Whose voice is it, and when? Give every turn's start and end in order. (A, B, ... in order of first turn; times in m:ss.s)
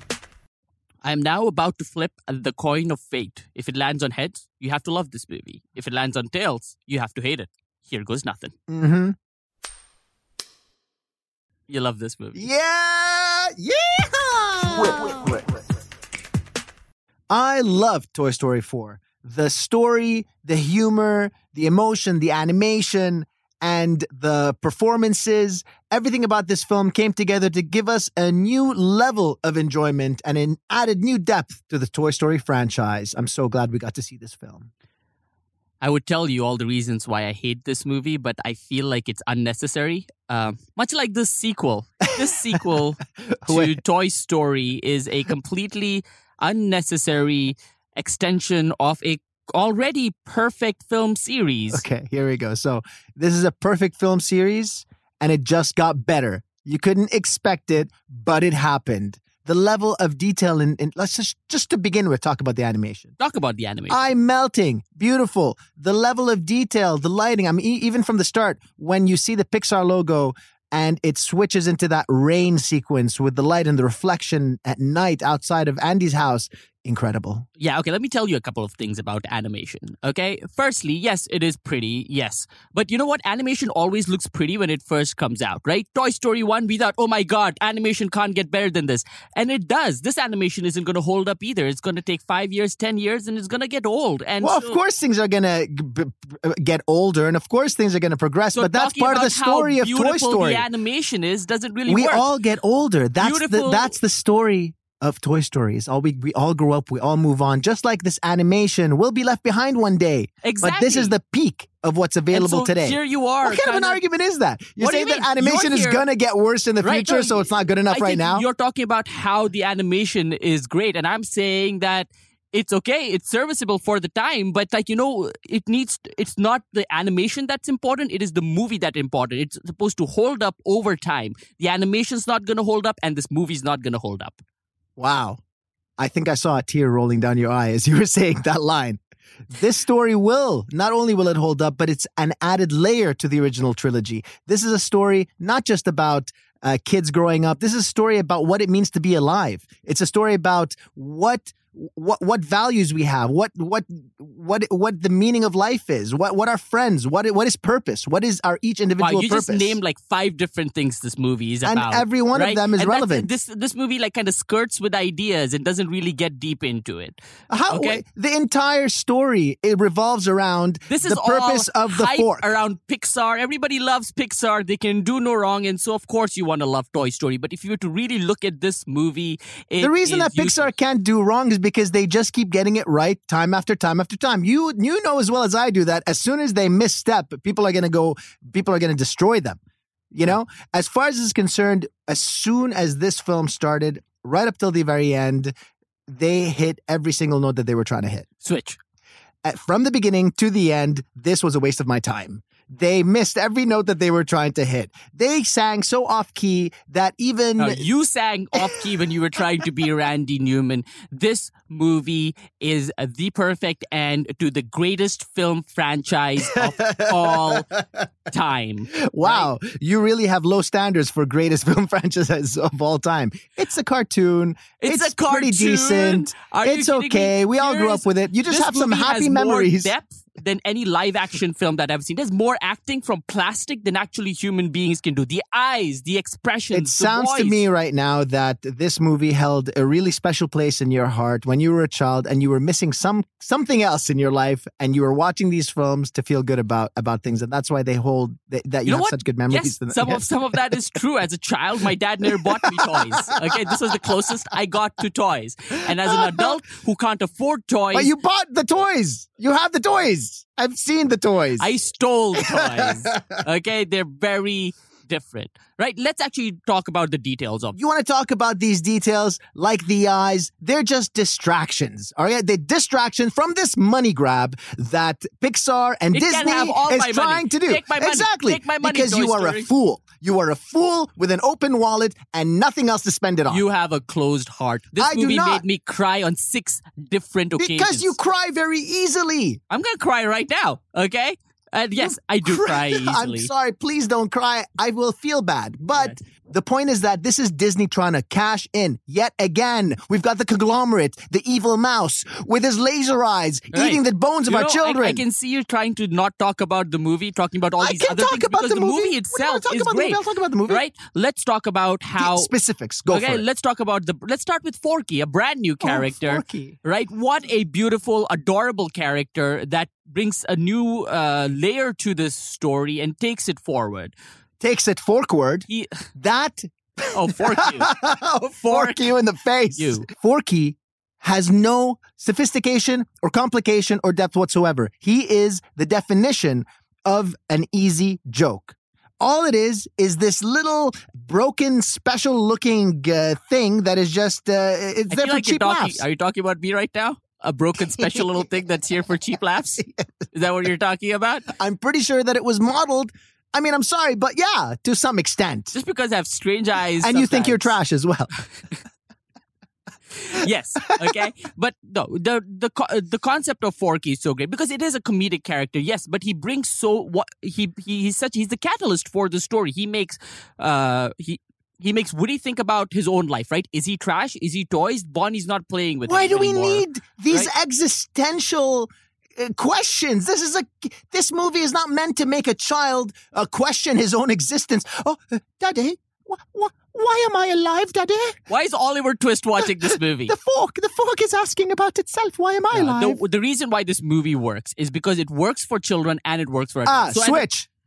0:01.0-0:08.5 A
0:08.7-0:09.2 B
0:11.7-0:12.5 A
0:12.4-0:15.5 B
0:17.3-0:34.7 B
0:35.8-0:51.8 A
0:42.2-0:42.6 B
0:43.3-0:43.8 B
0:51.7-1:03.1 B
1:03.2-1:04.0 A
1:03.9-1:17.4 B
1:17.6-1:34.8 A
1:34.4-1:40.6 B
1:38.5-1:42.2 A
1:41.9-1:58.4 B
1:43.2-1:43.9 A
1:50.4-1:51.1 A
1:52.3-1:54.0 A
1:54.8-1:56.0 A
1:56.8-2:14.4 A
2:15.0-2:15.4 B
2:16.0-2:39.8 B
2:39.0-2:47.2 A
2:41.6-2:43.3 B
2:47.5-2:52.5 B
2:47.7-2:48.0 A
2:50.9-3:00.7 A
2:59.8-3:09.6 B
3:10.1-3:15.5 B
3:16.1-3:18.3 B
3:18.4-3:18.8 A
3:19.4-3:27.9 B
3:27.6-3:37.7 A
3:36.4-3:38.1 B
3:38.3-3:39.5 A
3:38.9-3:49.9 B
3:44.8-3:57.6 A
3:56.7-4:10.8 B
4:08.9-4:18.1 A
4:12.3-4:13.6 B
4:15.9-4:16.6 B
4:17.9-4:21.7 B
4:21.6-4:27.8 A
4:22.4-4:23.4 B
4:27.8-4:43.6 B
4:36.1-4:39.7 A
4:43.5-4:48.1 A
4:45.0-4:45.6 B
4:47.6-4:49.6 B
4:49.7-4:53.5 A
4:52.0-5:05.2 B
5:03.7-5:12.5 A
5:07.8-5:10.8 B
5:12.2-5:13.4 B
5:13.1-5:24.1 A
5:15.8-5:16.8 B
5:24.6-5:46.0 B
5:25.7-5:26.1 A
5:27.1-5:27.9 A
5:28.6-5:29.1 A
5:29.8-5:30.1 A
5:45.1-5:51.5 A
5:48.0-5:48.4 B
5:49.8-5:50.1 B
5:51.5-5:55.7 B
5:55.7-5:57.8 A
5:57.0-5:58.3 B
6:00.2-6:17.5 A
6:00.9-6:01.2 B
6:16.0-6:28.4 B
6:28.5-6:30.3 A
6:30.3-6:33.2 B
6:32.7-6:37.4 A
6:36.9-6:37.7 B